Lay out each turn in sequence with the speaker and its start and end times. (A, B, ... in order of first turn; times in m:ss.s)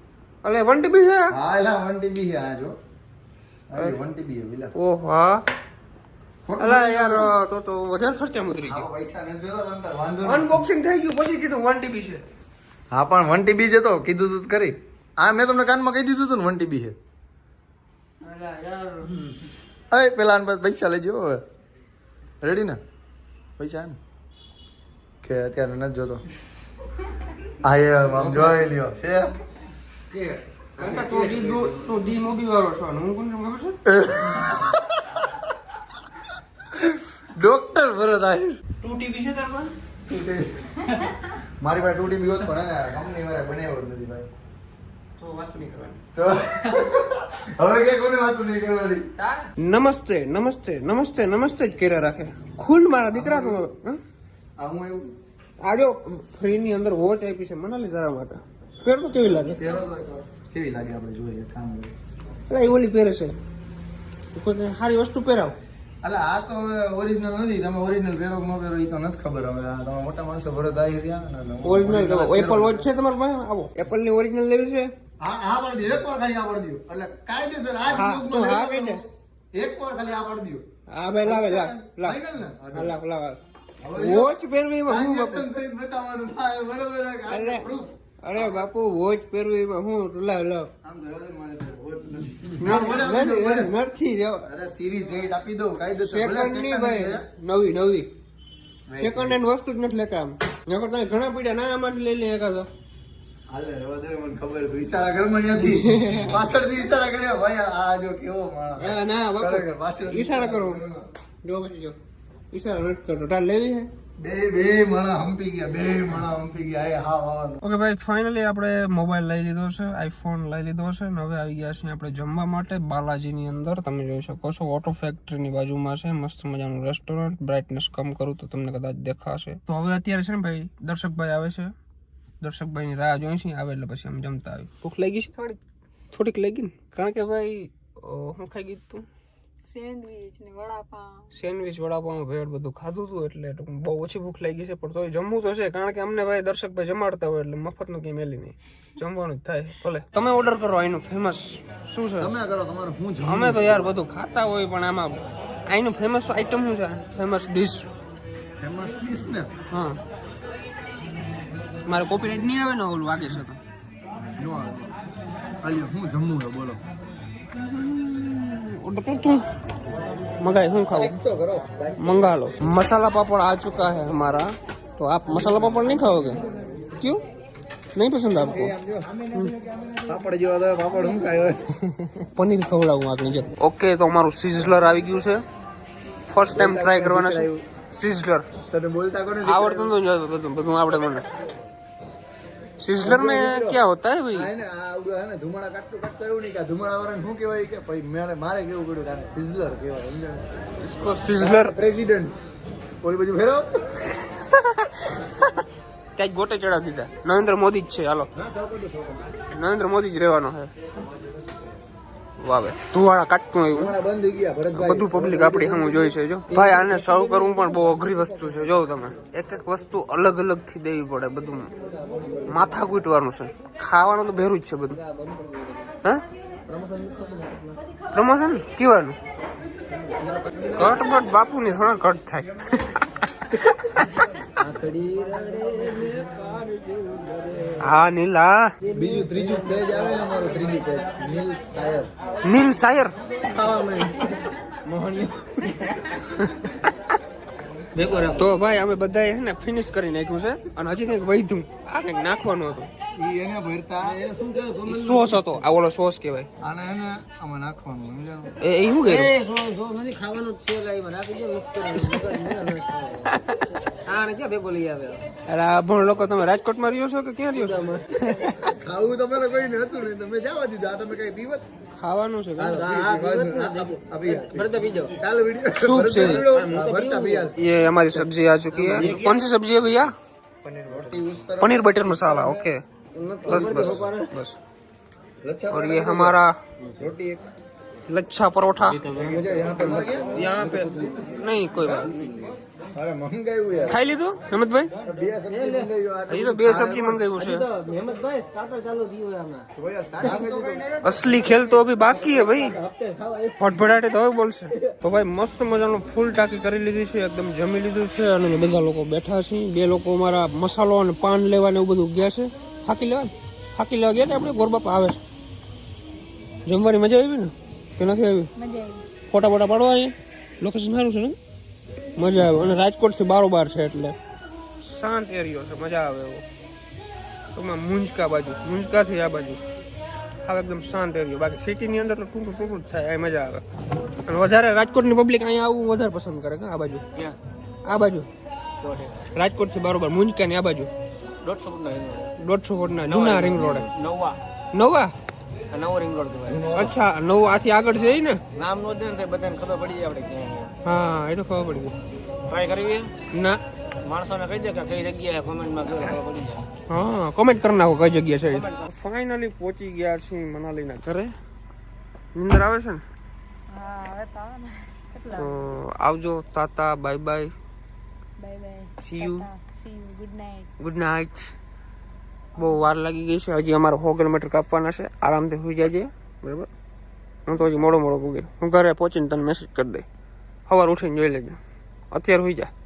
0:00.4-0:01.3 A
0:01.3-0:02.7 B
0:03.7-0:04.7 B
0:04.7-0:05.4 A
0:06.4-0:07.3 B
0:06.6-0:08.9 A
0:08.7-0:10.6 B
0:10.2-0:12.2 A
0:12.9-0:17.0 B
0:18.3-0:19.0 A
0:19.9-0:21.4 B
0:22.4-0:22.8 B
0:23.6-0:24.0 B
0:25.2-0:26.2 B
0:27.6-0:29.3 B
0:30.1-0:31.8 C
0:30.8-0:33.8 A
0:33.8-0:34.8 B
0:36.8-0:38.6 B
0:38.8-0:39.7 A
0:40.0-0:40.6 B
0:41.6-0:44.3 B
0:45.2-0:46.0 A
0:46.1-0:49.0 B
0:49.2-0:54.0 A
0:53.1-0:53.7 B
0:54.6-0:55.1 B
0:55.6-0:59.7 A
0:59.4-1:01.9 B
1:02.5-1:03.4 A
1:04.3-1:05.6 A
1:06.0-1:12.9 B
1:11.6-1:14.9 A
1:15.2-1:20.6 B
1:17.9-1:19.0 A
1:20.9-1:22.2 A
1:21.2-1:23.0 B
1:22.7-1:23.4 A
1:23.8-1:28.7 B
1:24.0-1:25.4 A
1:27.3-1:27.7 A
1:28.2-1:30.7 A
1:30.8-1:33.7 B
1:32.6-1:34.5 A
1:34.5-1:37.2 B
1:36.1-1:38.1 A
1:38.9-1:39.4 B
1:39.0-1:42.7 A
1:43.5-1:51.0 B
1:45.6-1:46.4 A
1:48.8-1:50.8 A
1:51.4-1:52.0 A
1:52.5-1:53.9 A
1:54.2-1:57.6 B
1:57.6-2:11.7 A
2:12.4-2:15.3 A
2:16.1-2:19.0 A
2:19.6-2:21.3 D
2:21.3-2:32.3 A
2:32.2-2:33.9 B
2:33.2-2:37.9 A
2:38.6-2:39.5 B
2:39.7-2:40.0 A
2:41.8-2:43.6 A
2:44.4-2:44.9 B
2:45.6-2:46.8 B
2:47.6-2:49.4 A
2:50.4-2:51.2 A
2:50.9-2:52.4 B
2:52.0-2:56.4 A
2:57.9-2:58.7 A
2:58.3-2:59.2 B
3:00.0-3:01.6 B
3:01.8-3:05.4 A
3:06.2-3:08.5 A
3:06.5-3:07.6 B
3:08.7-3:09.9 B
3:09.4-3:11.2 A
3:12.8-3:14.5 A
3:13.0-3:13.8 B
3:14.3-3:20.4 B
3:20.8-3:21.7 A
3:21.3-3:22.3 B
3:23.0-3:24.0 B
3:24.2-3:25.5 A
3:26.2-3:28.3 A
3:28.3-3:29.3 B
3:29.5-3:30.7 A
3:32.4-3:33.9 A
3:33.7-3:36.8 B
3:34.7-3:41.7 A
3:42.5-3:45.0 A
3:45.0-3:45.9 C
3:46.7-3:47.5 B
3:48.1-3:49.2 A
3:50.7-3:52.5 A
3:53.4-3:54.2 A
3:54.6-3:57.8 C
3:57.8-3:58.7 A
3:58.8-4:00.1 C
3:58.9-4:02.1 B
4:02.4-4:03.2 A
4:03.4-4:06.0 C
4:06.2-4:06.9 A
4:07.9-4:08.5 C
4:08.4-4:12.9 A
4:13.2-4:14.2 B
4:14.0-4:15.6 C
4:14.8-4:16.5 A
4:16.6-4:18.5 B
4:18.6-4:19.3 A
4:19.0-4:23.3 C
4:23.3-4:23.6 A
4:24.0-4:25.2 C
4:25.5-4:28.7 A
4:27.5-4:28.4 C
4:28.6-4:31.6 B
4:32.0-4:32.8 A
4:32.6-4:37.6 B
4:32.6-4:35.1 C
4:35.8-4:36.5 A
4:36.2-4:37.5 C
4:37.6-4:40.1 A
4:38.7-4:39.3 C
4:38.9-4:39.4 B
4:40.6-4:42.7 B
4:41.6-4:42.8 A
4:43.1-4:44.3 C
4:43.4-4:44.1 B
4:43.5-4:44.6 A
4:45.4-4:46.4 B
4:45.7-4:46.5 A
4:47.0-4:47.4 B
4:48.1-4:49.0 A
4:48.9-4:51.2 C
4:49.1-4:51.0 B
4:50.3-4:52.1 A
4:51.8-4:54.0 B
4:53.9-4:54.9 A
4:55.0-4:57.3 B
4:55.5-4:55.9 C
4:56.3-4:57.7 A
4:57.3-4:59.7 C
4:59.7-5:00.9 B
5:00.2-5:03.6 C
5:01.0-5:02.8 A
5:03.6-5:15.2 A
5:16.6-5:18.5 A
5:18.5-5:19.0 D
5:19.3-5:21.4 A
5:22.2-5:24.1 A
5:24.8-5:26.4 A
5:27.5-5:29.6 A
5:30.4-5:33.6 A
5:34.3-5:37.0 A
5:37.8-5:38.3 A
5:38.8-5:39.2 C
5:39.3-5:40.9 A
5:41.4-5:42.3 C
5:42.4-5:43.8 A
5:43.0-5:44.4 C
5:44.7-5:45.1 A
5:45.7-5:46.9 C
5:46.7-5:48.4 A
5:48.6-5:50.7 C
5:50.8-5:51.9 A
5:52.5-5:53.1 C
5:53.3-5:53.6 A
5:54.0-5:56.6 C
5:56.9-6:01.3 A
5:58.5-5:58.8 C
6:02.3-6:03.0 A
6:03.7-6:05.6 D
6:05.3-6:07.5 A
6:08.4-6:10.7 D
6:09.0-6:09.5 A
6:10.8-6:11.5 A
6:12.6-6:12.9 D
6:12.6-6:16.7 A
6:17.4-6:20.0 A
6:20.7-6:21.6 A
6:22.1-6:22.7 A